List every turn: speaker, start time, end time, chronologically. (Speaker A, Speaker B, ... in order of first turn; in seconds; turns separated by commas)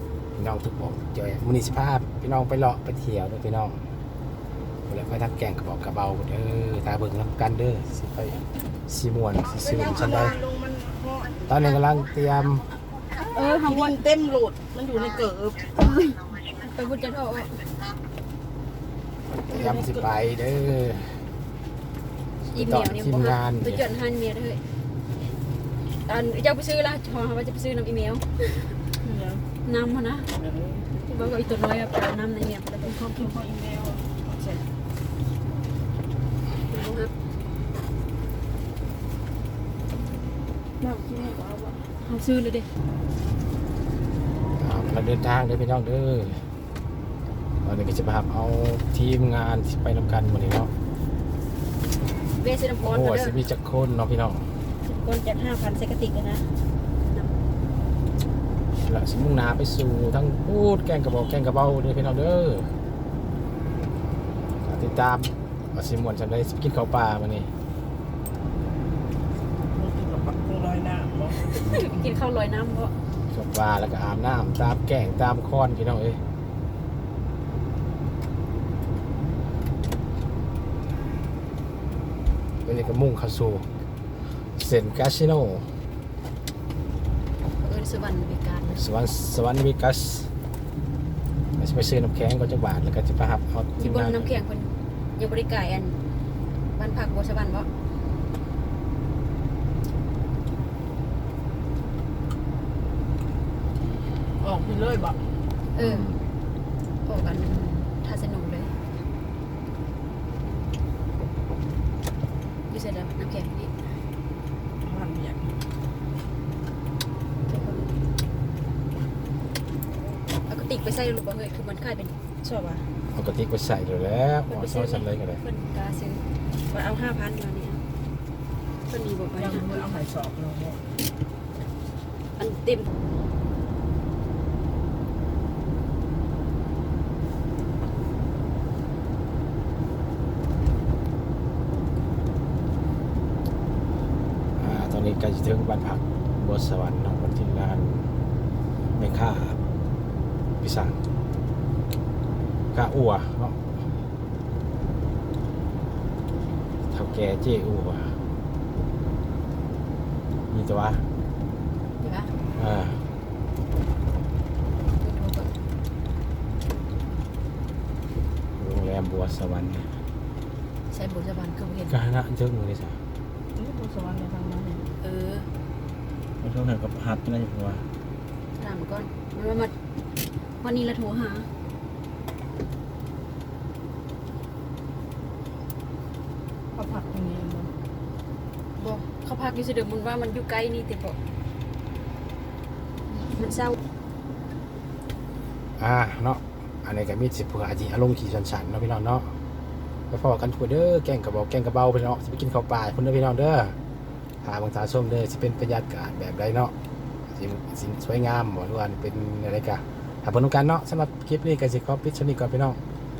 Speaker A: 0.3-3.9, Speaker A: 4.9-10.4, Speaker B: 9.6-11.4, Speaker A: 11.5-12.7, Speaker C: 13.3-14.0, Speaker B: 13.4-16.0, Speaker C: 16.4-17.7, Speaker A: 19.5-21.2, Speaker A: 22.5-23.8, Speaker C: 22.5-24.6, Speaker C: 26.1-28.8, Speaker B: 29.0-29.4, Speaker C: 29.6-30.3, Speaker B: 30.4-30.9, Speaker C: 31.0-33.1, Speaker B: 32.8-34.6, Speaker C: 36.7-37.1, Speaker B: 40.8-41.9, Speaker C: 42.0-42.7, Speaker A: 44.6-46.5, Speaker A: 47.6-50.7, Speaker C: 52.4-53.4, Speaker A: 52.8-54.5, Speaker C: 54.8-57.4, Speaker A: 58.8-62.7, Speaker A: 64.6-67.5, Speaker B: 69.7-71.5, Speaker C: 71.3-72.9, Speaker A: 73.3-76.2, Speaker A: 82.6-85.7, Speaker C: 87.6-88.8, Speaker A: 88.7-90.3, Speaker A: 91.6-94.3, Speaker C: 93.8-96.0, Speaker C: 96.7-97.7, Speaker B: 104.4-105.3, Speaker C: 105.7-106.1, Speaker A: 105.8-106.2, Speaker C: 107.0-108.8, Speaker C: 112.7-113.8, Speaker B: 114.8-115.5, Speaker C: 117.5-117.9, Speaker C: 120.4-122.2, Speaker B: 122.4-122.8, Speaker A: 123.1-125.4, Speaker C: 124.5-127.8, Speaker C: 128.9-129.9, Speaker B: 129.4-130.8, Speaker C: 132.4-132.9, Speaker A: 144.6-148.1, Speaker A: 148.9-149.6, Speaker A: 150.6-151.0, Speaker A: 152.7-153.8, Speaker A: 156.9-158.2, Speaker A: 160.5-161.1, Speaker C: 162.0-162.3, Speaker A: 162.5-163.0, Speaker C: 164.9-165.5, Speaker A: 168.6-170.0, Speaker C: 170.9-172.0, Speaker A: 171.9-173.0, Speaker B: 173.6-174.9, Speaker C: 175.0-175.5, Speaker A: 176.4-177.9, Speaker C: 178.6-179.7, Speaker C: 180.6-181.5, Speaker B: 186.8-187.7, Speaker C: 188.8-191.2, Speaker C: 193.3-193.8, Speaker A: 195.8-199.4, Speaker A: 200.1-203.8, Speaker A: 204.4-206.7, Speaker A: 207.3-212.8